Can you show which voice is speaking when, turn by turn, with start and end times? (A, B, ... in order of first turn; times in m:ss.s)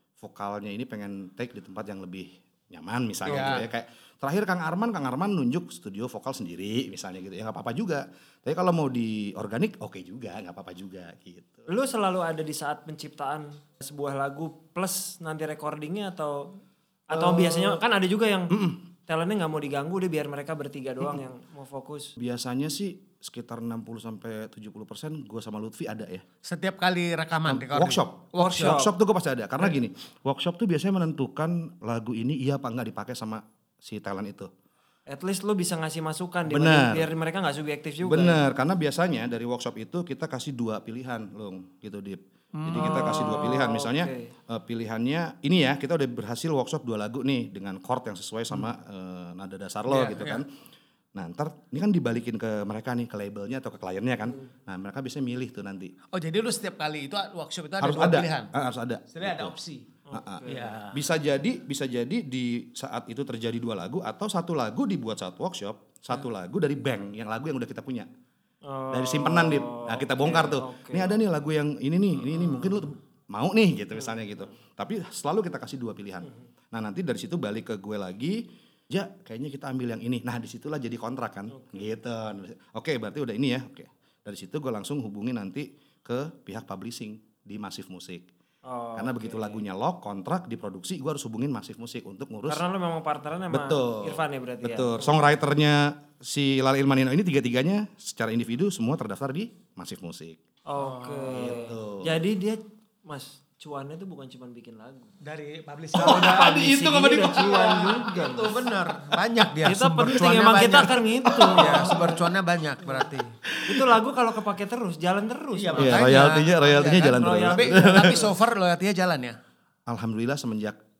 0:00.2-0:11.7 A
0:03.2-0:03.7 B
0:11.7-0:16.5 C
0:17.1-0:22.1 C
0:17.1-0:17.8 A
0:18.5-0:18.8 A
0:22.2-0:26.2 A
0:26.4-0:28.8 B
0:27.5-0:34.5 A
0:28.4-0:28.9 C
0:35.1-0:38.4 C
0:36.5-0:37.1 A
0:38.0-0:50.5 A
0:42.5-0:43.4 B
0:42.8-0:44.3 C
0:49.9-0:50.4 B
0:51.1-0:55.9 A
0:56.1-0:58.5 B
0:57.8-0:59.5 A
0:59.1-0:59.9 B
1:00.1-1:00.8 C
1:00.1-1:08.1 A
1:00.5-1:01.0 B
1:08.6-1:11.2 C
1:08.9-1:28.3 A
1:21.5-1:21.9 C
1:28.6-1:29.6 C
1:29.0-1:32.6 A
1:32.5-1:35.1 C
1:33.5-1:40.4 A
1:40.7-1:45.2 C
1:40.8-1:41.5 B
1:41.3-1:42.2 A
1:45.2-1:46.5 B
1:45.9-1:48.6 C
1:46.0-1:48.1 A
1:48.0-1:53.4 B
1:49.6-1:52.1 C
1:51.2-1:52.1 A
1:53.5-1:54.0 A
1:53.6-1:56.1 C
1:55.5-1:59.4 B
1:55.8-1:58.3 A
1:56.8-1:58.3 C
1:59.9-2:00.8 A